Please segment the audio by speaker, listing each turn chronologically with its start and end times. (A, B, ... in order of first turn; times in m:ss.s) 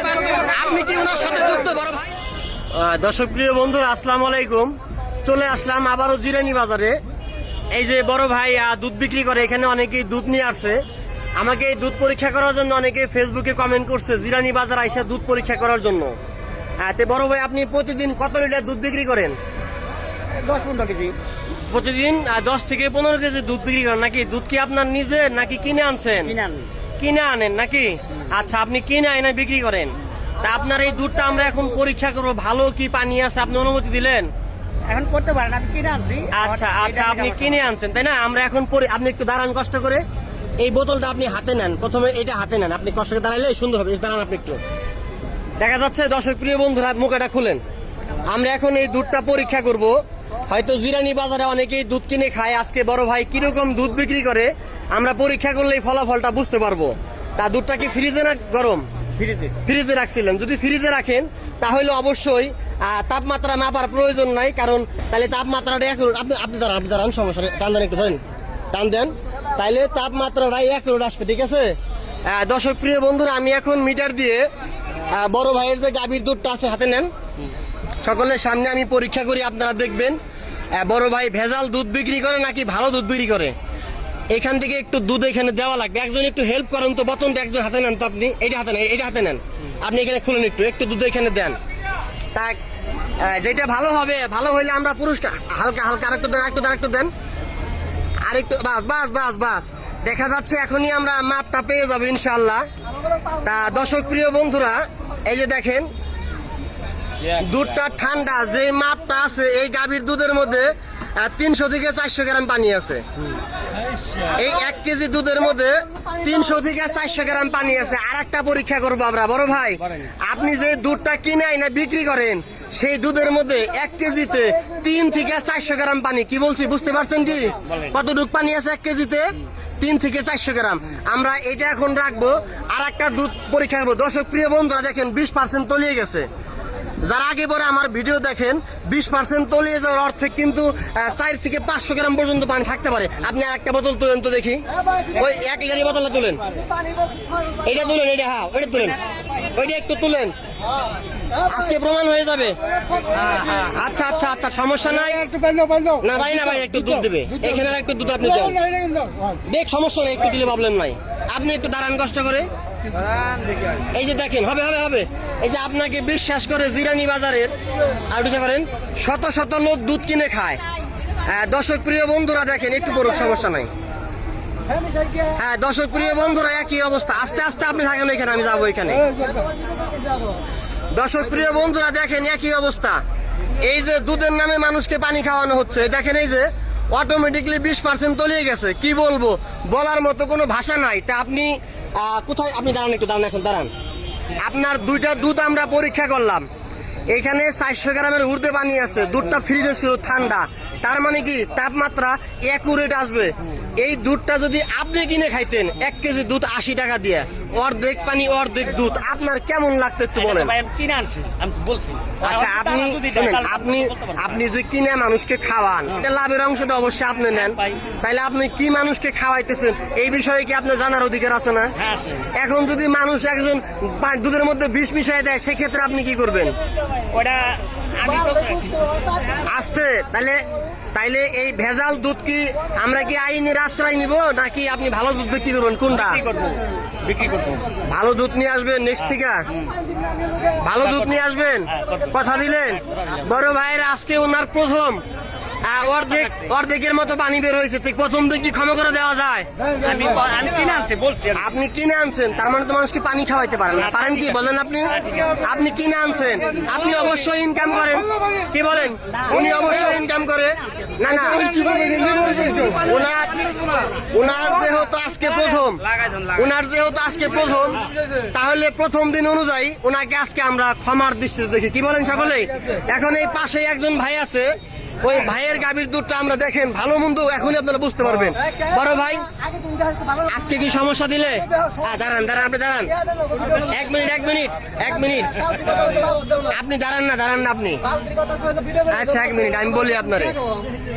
0:00.3-0:02.1 A
0:02.7-0:07.0 A
0:07.7-0:10.8 A
0:11.4-0:16.1 A
0:16.8-0:19.4 A
0:20.4-0:21.2 B
0:21.7-0:26.3 A
0:26.3-0:26.7 B
0:27.0-0:34.3 A
0:34.9-0:37.5 B
0:36.3-0:40.0 A
0:40.6-0:44.6 A
0:45.6-0:47.6 A
0:48.3-0:50.0 A
0:50.5-1:08.2 A
1:08.7-1:11.8 A
1:12.3-1:14.5 A
1:15.1-1:17.1 A
1:18.0-1:20.2 A
1:20.8-1:23.6 A
1:24.3-1:31.6 A
1:33.2-1:37.1 A
1:38.2-1:42.7 A
1:43.4-1:45.9 A
1:47.3-1:53.0 A
1:54.3-2:16.3 A
2:17.0-2:26.4 A
2:27.6-2:29.0 A
2:29.5-2:30.3 A
2:31.4-2:32.6 A
2:33.5-2:35.3 A
2:36.0-2:38.6 A
2:39.5-2:42.5 A
2:43.9-2:47.5 A
2:48.1-2:50.6 A
2:51.3-2:53.7 A
2:55.4-2:59.1 A
3:00.9-3:03.0 A
3:03.6-3:13.7 A
3:14.4-3:16.5 A
3:17.1-3:30.6 A
3:30.2-3:34.2 B
3:32.2-3:41.7 A
3:41.8-3:42.2 B
3:42.4-3:46.6 A
3:47.1-3:49.2 B
3:49.4-3:56.3 A
3:56.0-3:57.7 B
3:57.8-3:59.5 A
4:00.6-4:05.0 A
4:01.7-4:02.1 B
4:05.6-4:09.5 A
4:09.8-4:11.4 B
4:11.3-4:21.8 A
4:15.0-4:15.4 B
4:21.8-4:22.3 B
4:22.4-4:23.4 A
4:24.0-4:27.8 A
4:28.3-4:39.3 A
4:40.1-4:43.0 A
4:43.6-4:45.7 A
4:46.4-4:47.8 A
4:48.9-4:50.4 A